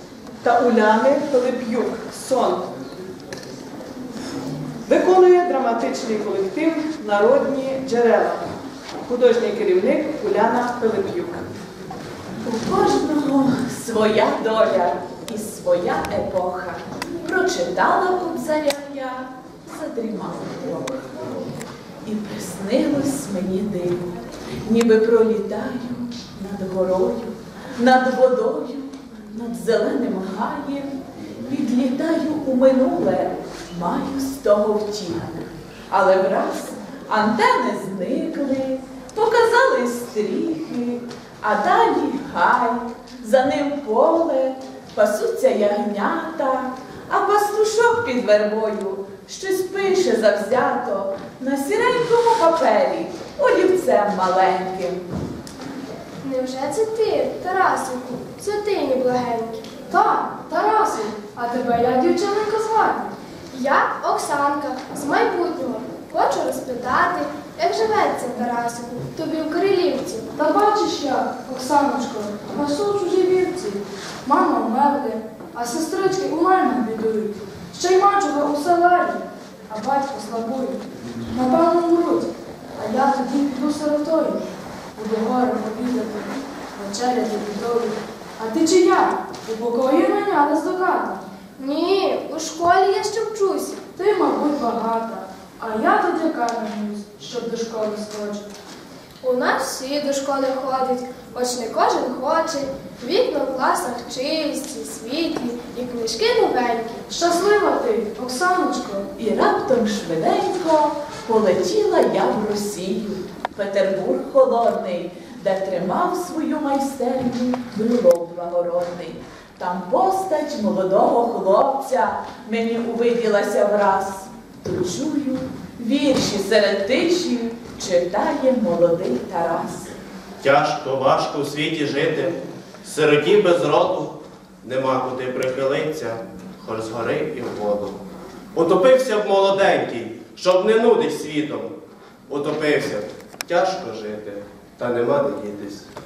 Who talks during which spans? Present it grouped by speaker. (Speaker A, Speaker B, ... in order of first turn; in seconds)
Speaker A: 0.4-2.7, 4.9-8.4, 9.1-11.4
Speaker B: 12.4-21.2, 22.0-30.9, 31.4-55.0, 109.2-129.9
Speaker C: 56.2-60.2, 63.5-70.3, 91.6-93.8, 99.2-107.0
Speaker D: 60.2-63.1, 70.4-84.4, 85.0-91.2, 94.0-98.5, 107.1-109.1
Speaker E: 130.4-138.0, 138.6-141.7, 142.3-145.8